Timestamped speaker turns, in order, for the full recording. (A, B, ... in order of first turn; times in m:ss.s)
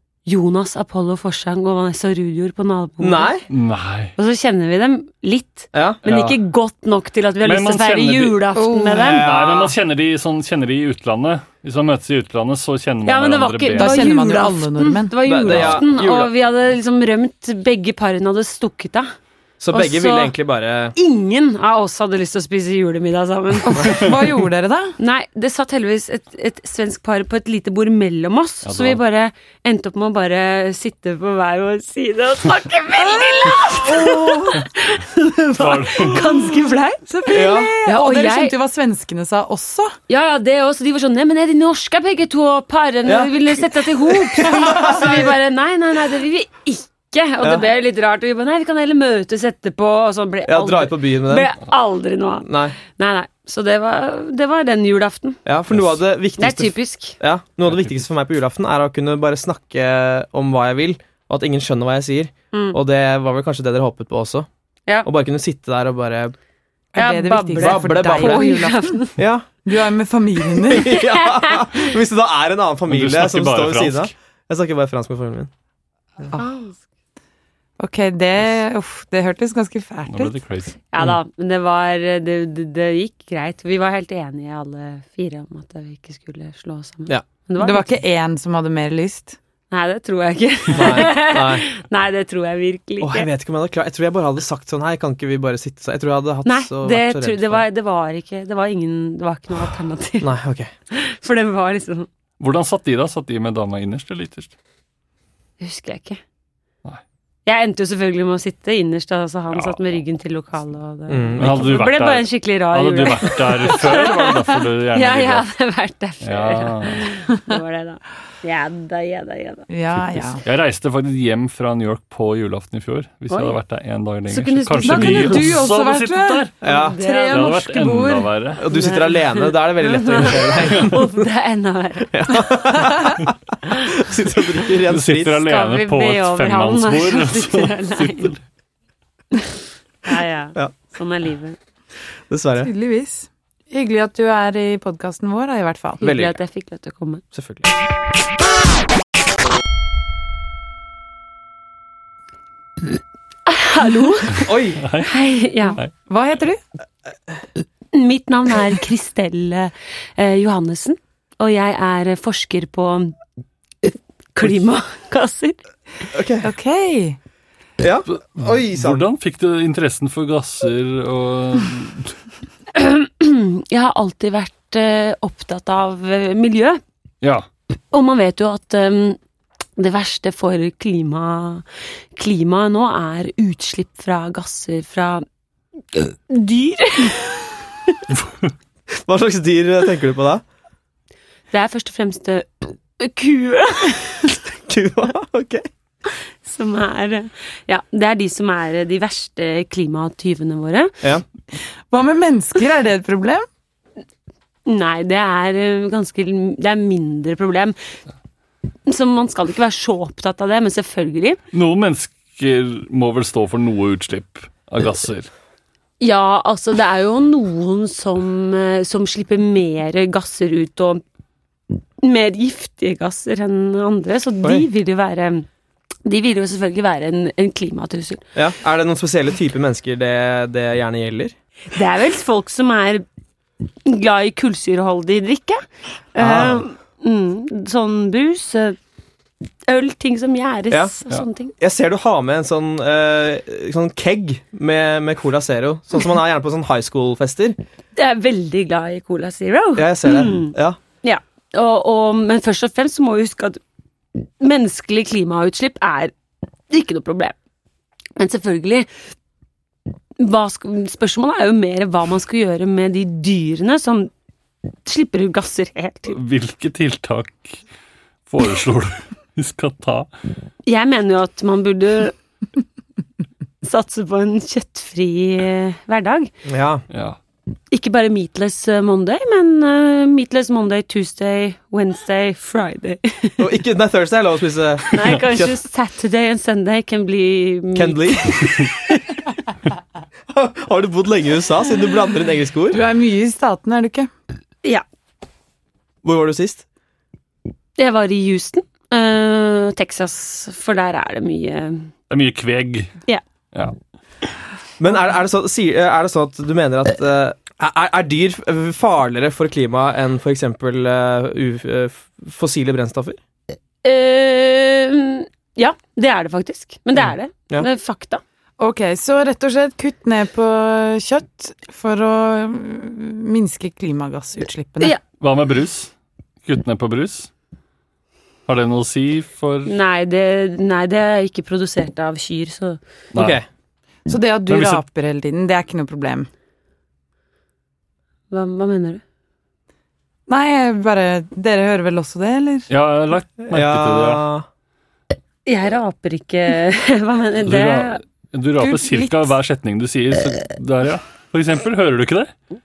0:00.3-0:03.4 A
0:03.0-0:03.4 B
0:03.5-0:04.1 C
0:04.2-0:09.3 A
0:05.7-0:06.0 B
0:06.0-0:06.4 C
0:07.4-0:08.4 C
0:08.6-0:09.1 D
0:08.9-0:09.7 B
0:09.0-0:14.2 C
0:13.0-0:19.1 A
0:13.8-0:15.2 D
0:15.2-0:16.3 B
0:15.5-0:15.8 C
0:19.6-0:21.0 B
0:19.7-0:20.4 A
0:21.0-0:24.1 A
0:23.7-0:25.0 D
0:25.0-0:38.6 A
0:28.6-0:29.0 C
0:33.8-0:34.6 B
0:35.6-0:36.3 C
0:37.1-0:40.0 D
0:37.3-0:37.7 B
0:40.1-0:55.4 A
0:43.1-0:45.3 B
0:50.5-0:51.5 B
0:52.4-0:52.8 B
0:55.5-1:04.5 B
0:56.4-0:57.2 A
0:57.7-0:58.0 C
1:02.5-1:02.8 A
1:05.0-1:06.3 B
1:06.9-1:09.0 D
1:07.0-1:09.2 A
1:07.6-1:08.5 B
1:09.2-1:09.5 B
1:09.6-1:10.9 D
1:10.6-1:15.5 B
1:10.9-1:11.8 A
1:12.9-1:14.1 C
1:16.3-1:16.8 A
1:17.8-1:20.4 D
1:20.1-1:20.8 C
1:20.9-1:27.9 A
1:27.6-1:29.4 D
1:29.7-1:33.3 A
1:30.7-1:31.7 B
1:33.0-1:37.6 B
1:36.4-1:40.3 A
1:40.2-1:40.7 B
1:40.9-1:42.1 A
1:42.4-1:44.5 C
1:45.6-1:46.2 A
1:47.5-1:59.7 A
1:49.5-1:49.8 C
1:51.1-1:51.8 B
1:51.4-1:55.5 C
1:56.2-1:57.1 C
1:59.7-2:00.4 D
1:59.9-2:06.5 C
2:03.3-2:03.6 A
2:04.3-2:05.6 A
2:04.8-2:08.3 D
2:06.6-2:07.0 B
2:06.6-2:07.5 A
2:07.3-2:08.6 C
2:08.6-2:11.2 B
2:08.7-2:12.5 A
2:12.1-2:15.4 B
2:14.9-2:18.4 C
2:15.4-2:18.4 A
2:20.0-2:21.6 A
2:22.3-2:22.7 B
2:22.6-2:26.0 D
2:26.0-2:27.2 A
2:26.0-2:26.4 B
2:27.3-2:27.7 B
2:33.5-2:35.8 A
2:34.4-2:34.8 B
2:34.8-2:35.1 C
2:36.1-2:36.6 D
2:37.9-2:43.2 A
2:43.9-2:45.6 A
2:46.1-2:46.5 B
2:46.4-2:47.2 D
2:47.8-2:49.1 B
2:48.1-2:52.2 C
2:52.7-2:56.8 A
2:57.2-2:57.5 C
2:57.9-2:59.2 A
2:59.8-3:01.6 A
3:02.2-3:05.2 A
3:05.9-3:08.0 A
3:08.1-3:08.5 C
3:09.0-3:10.4 B
3:11.5-3:14.4 A
3:14.7-3:15.7 B
3:16.4-3:20.9 A
3:21.9-3:23.5 D
3:24.7-3:27.8 A
3:28.9-3:31.4 A
3:31.5-3:35.3 C
3:36.0-3:41.0 A
3:42.0-3:45.5 A
3:46.0-3:48.2 A
3:48.4-3:51.4 B
3:51.7-3:53.0 A
3:53.8-3:55.6 A
3:56.2-3:58.8 A
3:56.2-3:56.6 B
3:59.7-4:01.5 A
4:01.6-4:07.6 B
4:08.0-4:13.6 A
4:09.8-4:10.8 B
4:14.4-4:16.1 A
4:16.7-4:17.4 A
4:18.2-4:18.9 A
4:20.2-4:24.1 A
4:24.8-4:26.2 A
4:26.1-4:27.6 C
4:28.3-4:30.1 C
4:30.7-4:32.2 A
4:33.6-4:36.3 A
4:36.5-4:36.8 B
4:36.9-4:37.2 C
4:37.7-4:43.5 A
4:43.4-4:45.5 B
4:44.9-4:48.7 A
4:47.8-4:48.6 B
4:50.3-4:52.8 B
4:52.7-4:54.1 D
4:56.0-4:56.6 B
4:57.8-5:01.9 A
5:02.1-5:03.0 C
5:04.8-5:13.2 B
5:13.8-5:18.2 A
5:17.0-5:17.7 B
5:18.6-5:24.9 D
5:25.2-5:25.9 C
5:26.4-5:27.3 C
5:28.5-5:29.7 C
5:29.7-5:32.8 A
5:33.1-5:33.4 C
5:33.2-5:33.5 B
5:34.1-5:36.3 D
5:34.5-5:34.8 C
5:38.3-5:39.0 A
5:40.3-5:42.7 D
5:42.7-5:44.2 C
5:43.4-5:44.5 B
5:45.5-5:48.0 A
5:47.4-5:52.3 C
5:48.6-5:49.3 D